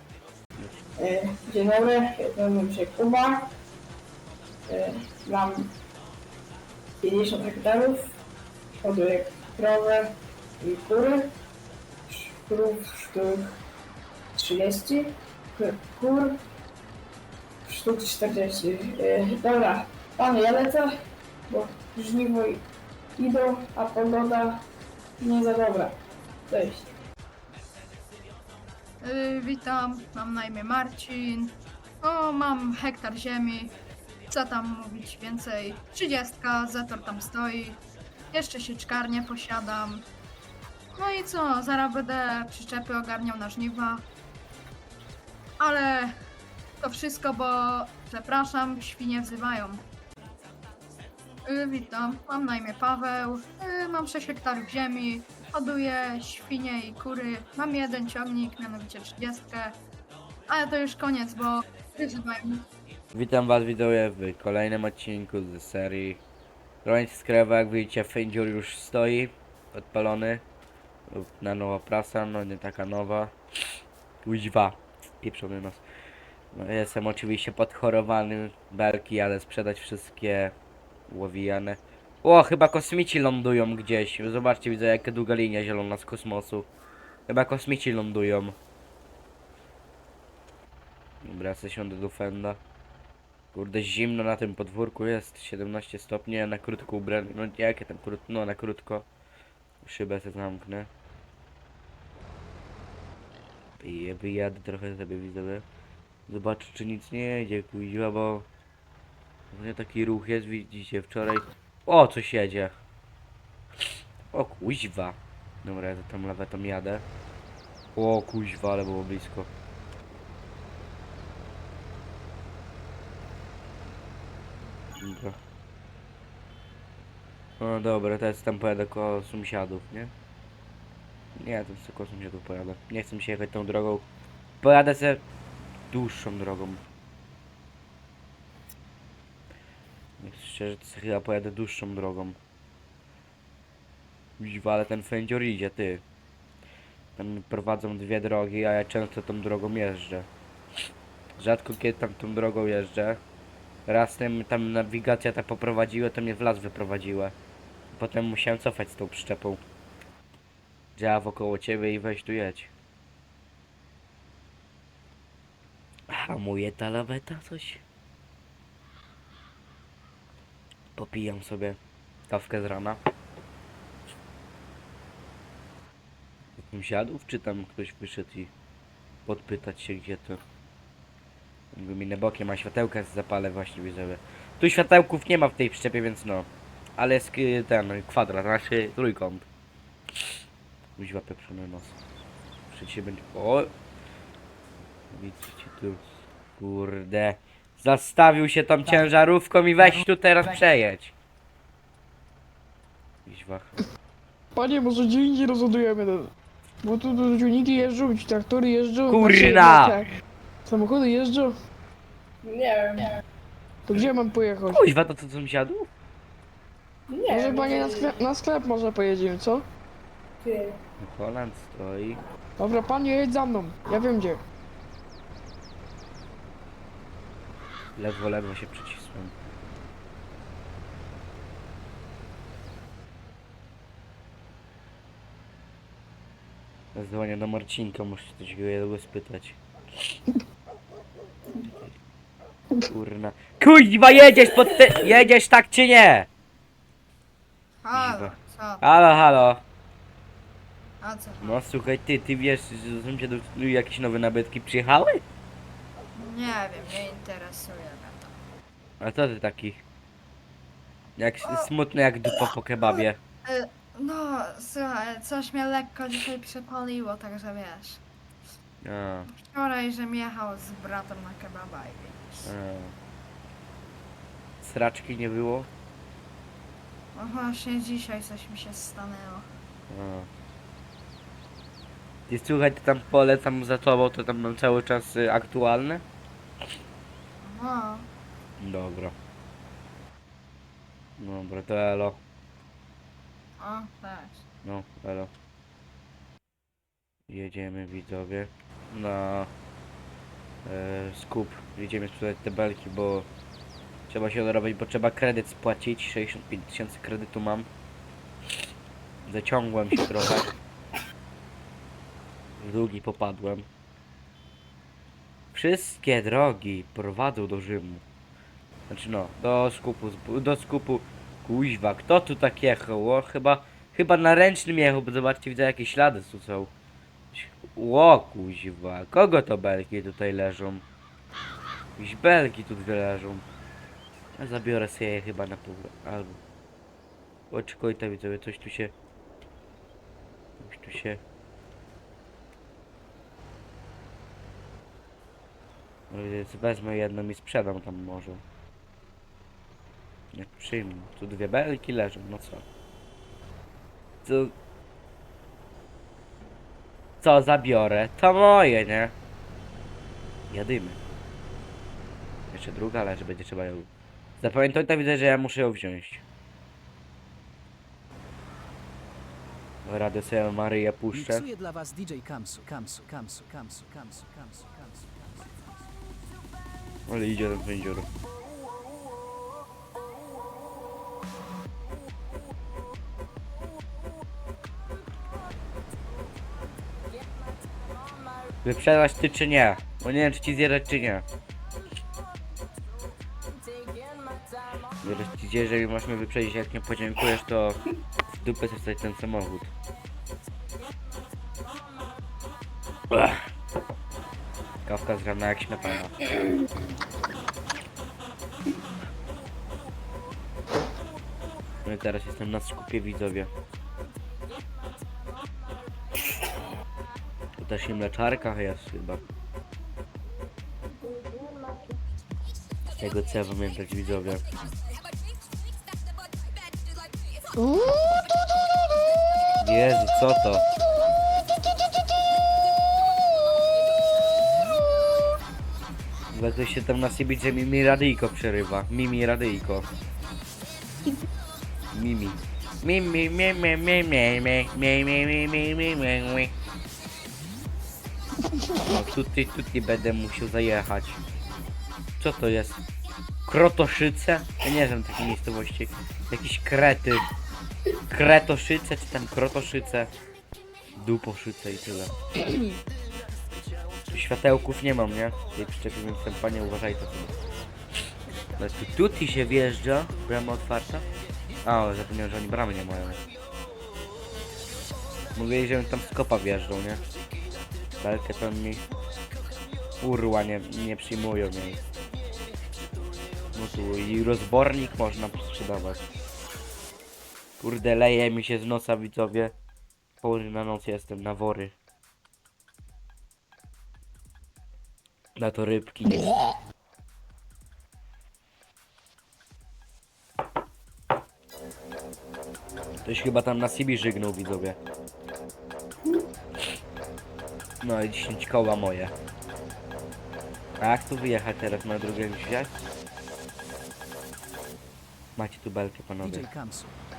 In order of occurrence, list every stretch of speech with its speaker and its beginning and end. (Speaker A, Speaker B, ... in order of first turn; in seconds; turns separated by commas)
Speaker A: 1.0-3.5, Speaker A: 4.7-5.7, Speaker A: 7.0-8.1, Speaker A: 8.7-11.3, Speaker A: 12.1-13.6, Speaker A: 14.3-16.4, Speaker A: 17.6-20.9, Speaker A: 21.5-22.6, Speaker A: 23.2-24.6, Speaker A: 25.2-26.9, Speaker B: 29.0-33.7, Speaker B: 34.3-37.8, Speaker B: 38.3-40.0, Speaker B: 40.9-44.0, Speaker B: 45.6-46.2, Speaker B: 46.8-49.8, Speaker B: 51.5-59.8, Speaker B: 60.5-62.6, Speaker C: 63.1-66.2, Speaker C: 66.8-70.4, Speaker C: 71.1-73.3, Speaker C: 74.2-75.8, Speaker C: 76.5-80.5, Speaker C: 81.1-86.7, Speaker C: 87.3-88.5, Speaker C: 91.2-92.6, Speaker C: 93.5-99.0, Speaker C: 99.8-100.9, Speaker C: 103.8-105.6, Speaker C: 106.3-108.5, Speaker C: 109.5-112.8, Speaker C: 114.3-117.0, Speaker C: 117.9-119.5, Speaker C: 125.0-125.4, Speaker C: 127.6-130.1, Speaker C: 131.3-134.1, Speaker C: 134.6-135.2, Speaker C: 135.9-136.8, Speaker C: 140.2-142.4, Speaker C: 144.4-146.0, Speaker C: 147.2-150.3, Speaker C: 151.4-153.2, Speaker C: 153.9-157.3, Speaker C: 157.9-159.6, Speaker C: 160.9-162.7, Speaker C: 166.1-167.8, Speaker C: 170.9-173.0, Speaker C: 176.7-178.5, Speaker C: 179.2-180.4, Speaker C: 181.7-189.5, Speaker C: 191.0-192.0, Speaker C: 192.7-193.7, Speaker C: 195.1-201.1, Speaker C: 203.2-203.7, Speaker D: 204.5-206.3, Speaker D: 206.8-210.1, Speaker C: 209.1-210.0, Speaker D: 210.7-211.5, Speaker A: 212.4-213.2, Speaker D: 213.9-214.8, Speaker C: 214.7-215.9, Speaker A: 217.1-218.2, Speaker D: 217.3-219.7, Speaker A: 220.4-220.8, Speaker C: 221.0-222.2, Speaker D: 222.6-224.4, Speaker C: 227.9-229.3, Speaker C: 236.9-239.6, Speaker C: 242.8-246.3, Speaker B: 247.8-248.8, Speaker C: 247.9-249.6, Speaker B: 251.0-251.6, Speaker C: 251.4-255.2, Speaker B: 256.1-258.3, Speaker C: 259.0-259.8, Speaker C: 261.2-263.2, Speaker B: 261.4-261.7, Speaker B: 263.4-268.0, Speaker C: 268.8-269.3, Speaker B: 269.3-272.5, Speaker C: 272.4-272.9, Speaker C: 274.6-275.7, Speaker B: 277.1-279.4, Speaker C: 279.9-280.3, Speaker C: 282.3-286.0, Speaker B: 287.4-288.1, Speaker C: 288.6-289.1, Speaker C: 291.2-292.2, Speaker B: 293.6-294.4, Speaker C: 294.6-295.3, Speaker C: 297.3-299.5, Speaker C: 300.6-303.3, Speaker C: 304.1-307.7, Speaker C: 309.2-310.5, Speaker C: 312.6-313.7, Speaker C: 315.5-318.0, Speaker C: 318.9-326.7, Speaker C: 327.3-330.8, Speaker C: 332.0-333.4, Speaker C: 334.4-336.4, Speaker C: 337.5-338.9, Speaker C: 340.6-341.2, Speaker C: 346.1-348.4, Speaker C: 350.3-352.6, Speaker C: 354.2-354.5, Speaker C: 357.2-359.1, Speaker C: 360.5-361.0, Speaker C: 362.5-363.9, Speaker C: 364.4-366.2, Speaker C: 369.8-371.4, Speaker E: 371.1-375.7, Speaker C: 377.1-378.1, Speaker C: 388.6-391.2, Speaker E: 393.5-394.4, Speaker C: 395.0-399.7, Speaker C: 403.1-403.4, Speaker C: 404.8-406.1, Speaker C: 411.8-413.5, Speaker C: 417.6-419.2, Speaker C: 423.0-424.4, Speaker C: 429.6-430.6, Speaker C: 436.3-439.9, Speaker C: 441.9-446.5, Speaker C: 448.8-451.2, Speaker C: 452.2-452.8, Speaker C: 453.5-457.2, Speaker C: 458.1-460.1, Speaker C: 461.0-462.1, Speaker C: 464.1-467.3, Speaker C: 468.6-471.1, Speaker C: 471.6-473.2, Speaker C: 475.3-477.0, Speaker C: 478.0-478.8, Speaker C: 480.0-481.8, Speaker C: 483.5-486.1, Speaker C: 487.6-489.5, Speaker C: 490.2-491.7, Speaker C: 495.4-496.3, Speaker C: 503.0-504.8, Speaker C: 507.8-509.1, Speaker C: 510.8-512.7, Speaker C: 515.4-516.5, Speaker E: 516.2-517.0